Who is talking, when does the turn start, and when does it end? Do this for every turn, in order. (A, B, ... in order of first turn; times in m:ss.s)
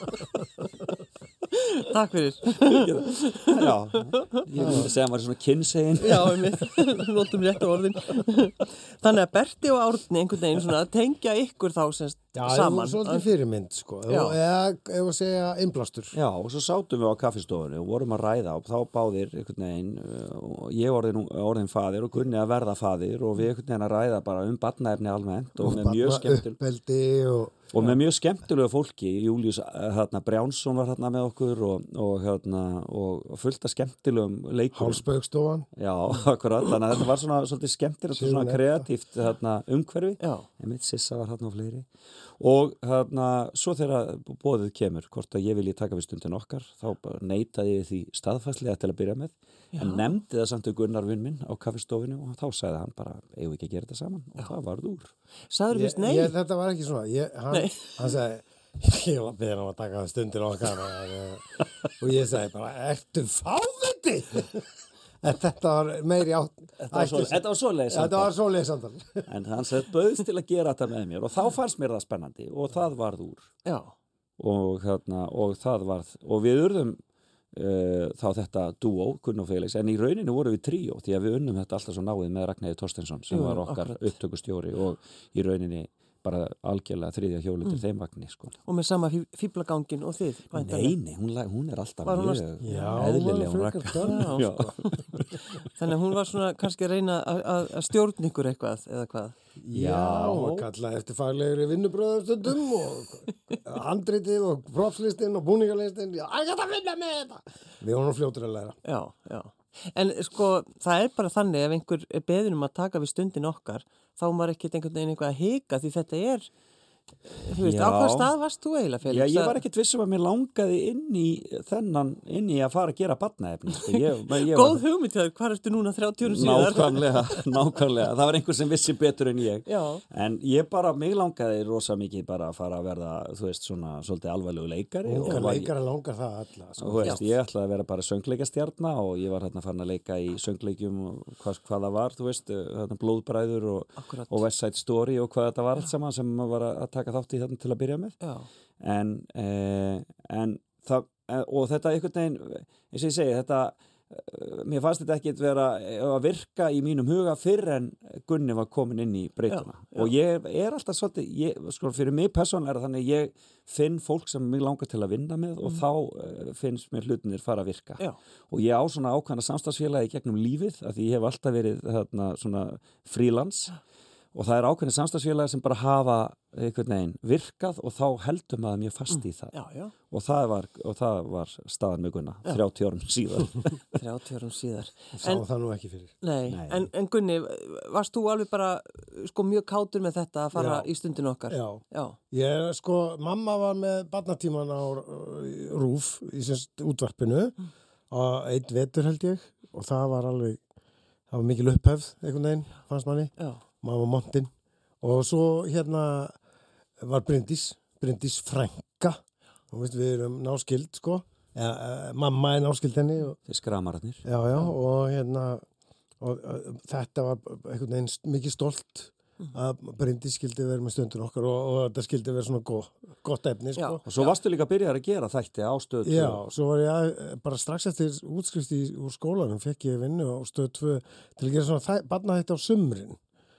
0:01.5-0:04.8 A
0:02.6-0:06.7 B
0:04.5-0:04.9 C
0:06.0-0:13.2 A
0:12.3-0:16.1 C
0:14.1-0:14.4 A
0:16.1-0:26.6 B
0:25.6-0:27.7 C
0:27.7-0:35.0 B
0:34.7-0:35.7 C
0:35.8-0:41.8 B
0:38.1-0:38.9 C
0:40.2-0:40.5 A
0:42.4-0:55.1 B
0:49.7-0:50.1 A
0:55.5-0:56.3 A
0:55.7-1:04.7 C
0:57.5-0:57.9 A
1:05.2-1:09.3 C
1:06.8-1:08.3 B
1:09.3-1:13.5 B
1:13.6-1:13.9 A
1:14.4-1:17.0 B
1:17.5-1:28.6 B
1:23.3-1:24.1 A
1:28.6-1:31.0 A
1:30.5-1:35.4 B
1:32.0-1:33.0 A
1:32.6-1:35.0 C
1:34.0-1:34.5 A
1:35.6-1:39.4 A
1:39.6-1:48.8 C
1:39.7-1:40.6 B
1:48.8-1:56.5 A
1:57.3-1:59.6 A
1:57.6-1:58.3 B
1:59.1-2:04.8 B
2:03.8-2:07.4 A
2:06.2-2:15.7 B
2:09.6-2:10.0 A
2:15.0-2:17.3 C
2:16.8-2:28.2 B
2:24.0-2:24.4 A
2:28.2-2:28.5 A
2:28.8-2:53.8 B
2:39.5-2:40.1 A
2:54.3-2:59.5 B
2:59.1-2:59.9 A
3:00.1-3:03.8 B
3:03.9-3:05.4 A
3:05.2-3:06.1 C
3:06.2-3:12.2 A
3:06.5-3:06.9 B
3:10.5-3:10.9 C
3:11.5-3:17.6 C
3:18.1-3:20.6 C
3:21.3-3:26.4 C
3:27.0-3:29.2 C
3:29.7-3:33.4 C
3:33.5-3:34.2 B
3:34.2-3:35.6 C
3:36.2-3:44.0 C
3:43.8-3:44.3 A
3:44.0-3:46.4 B
3:46.0-3:53.2 C